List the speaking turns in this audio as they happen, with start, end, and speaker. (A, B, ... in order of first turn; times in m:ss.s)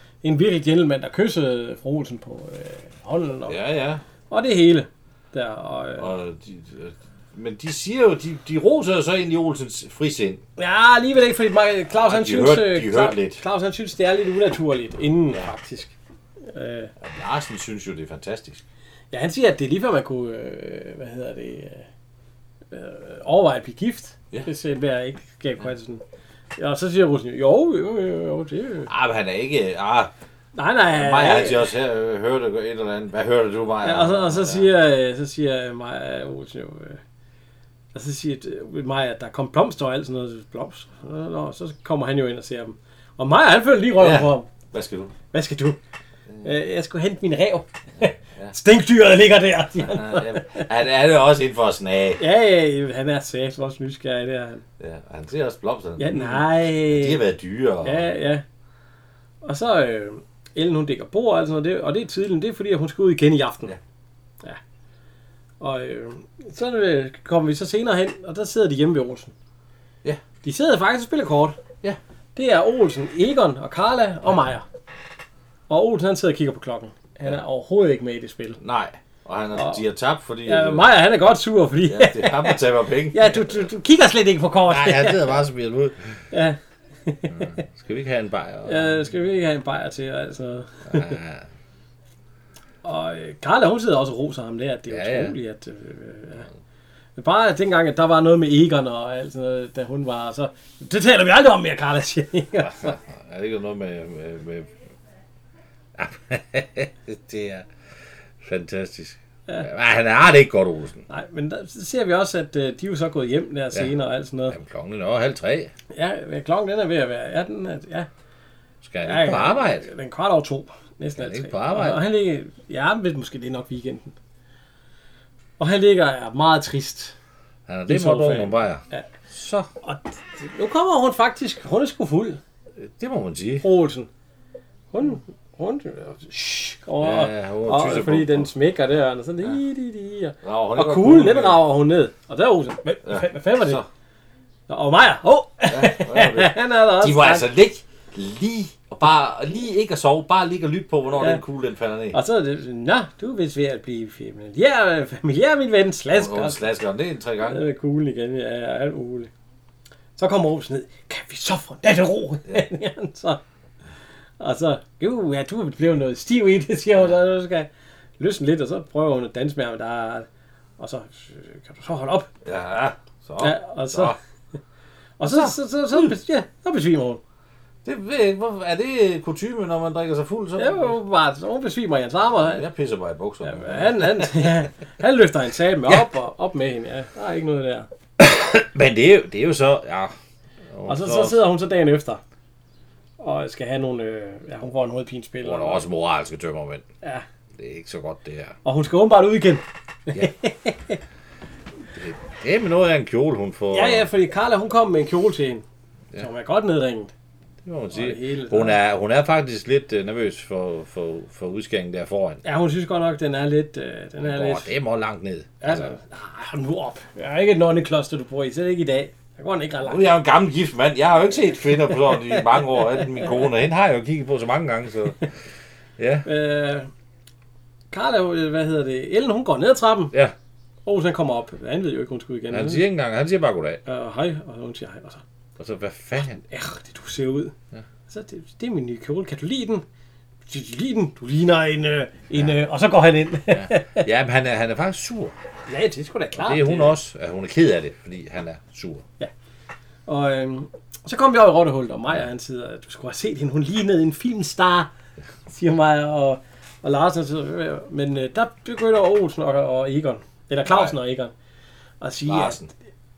0:00.2-0:03.6 A
0:03.5-0:04.0 B
0:04.3-0:06.1 A
0:06.0-0:10.4 B
0:10.6-0:16.9 A
0:11.9-0:13.4 B
0:17.0-0:18.6 B
0:19.1-0:21.9 A
0:22.7-0:26.0 A
0:26.6-0:28.9 A
0:28.9-0:30.1 B
0:30.5-0:31.7 A
0:30.9-0:34.7 B
0:33.8-0:37.0 A
0:37.9-0:44.5 A
0:44.0-0:45.1 B
0:45.3-0:45.8 A
0:46.4-0:50.7 A
0:49.8-0:52.2 B
0:52.2-0:54.6 A
0:54.8-0:58.1 B
0:56.0-0:57.2 A
0:57.8-0:58.4 A
0:59.4-1:03.8 A
1:05.6-1:09.3 A
1:10.4-1:11.6 A
1:12.3-1:14.6 A
1:15.7-1:18.6 A
1:18.6-1:20.9 B
1:19.5-1:19.8 A
1:20.4-1:25.4 A
1:21.8-1:23.6 B
1:24.7-1:26.2 B
1:26.3-1:27.6 A
1:27.3-1:29.0 B
1:28.6-1:31.2 A
1:30.9-1:31.5 B
1:32.8-1:36.5 A
1:34.9-1:35.3 B
1:37.2-1:43.0 A
1:42.6-1:44.7 B
1:45.9-1:47.7 B
1:48.4-1:51.0 B
1:51.1-1:54.6 A
1:54.5-1:55.7 B
1:55.9-1:58.1 A
1:58.8-1:59.8 B
1:59.0-2:04.1 A
2:01.2-2:02.0 B
2:05.6-2:07.1 A
2:07.7-2:09.7 B
2:07.9-2:09.1 A
2:09.8-2:12.4 A
2:12.8-2:13.6 B
2:13.6-2:14.1 A
2:14.9-2:23.8 A
2:17.0-2:18.5 B
2:20.4-2:21.6 B
2:23.0-2:23.8 B
2:24.7-2:27.5 A
2:25.7-2:32.2 B
2:32.1-2:36.6 A
2:36.1-2:37.6 B
2:37.4-2:39.3 A
2:40.2-2:43.4 A
2:44.4-2:50.3 A
2:50.8-2:52.3 A
2:52.4-2:54.2 B
2:53.4-2:54.2 A
2:55.2-2:57.2 A
2:55.2-2:56.1 B
2:57.8-3:01.0 B
3:00.6-3:02.6 A
3:02.4-3:04.6 B
3:03.4-3:07.9 A
3:08.2-3:10.1 B
3:10.7-3:11.4 B
3:10.9-3:12.2 A
3:13.2-3:15.8 A
3:15.4-3:16.8 B
3:17.6-3:18.6 B
3:18.6-3:21.0 A
3:21.9-3:24.1 B
3:23.7-3:25.6 A
3:26.2-3:27.1 A
3:27.6-3:32.4 B
3:27.9-3:28.8 A
3:32.4-3:34.7 A
3:34.2-3:35.9 B
3:35.6-3:40.1 A
3:39.8-3:45.3 B
3:42.1-3:42.4 A
3:46.0-3:46.3 B
3:46.2-3:46.9 A
3:47.9-3:50.1 A
3:50.8-3:52.9 A
3:52.5-3:53.8 B
3:53.8-3:55.2 A
3:55.6-3:56.4 B
3:56.4-3:57.5 A
3:58.1-3:59.8 A
4:00.5-4:04.1 A
4:03.5-4:05.4 B
4:05.7-4:07.0 A
4:06.4-4:09.0 B
4:10.1-4:14.9 A
4:15.5-4:21.3 A
4:20.7-4:21.0 B
4:22.0-4:22.6 A
4:22.2-4:22.7 B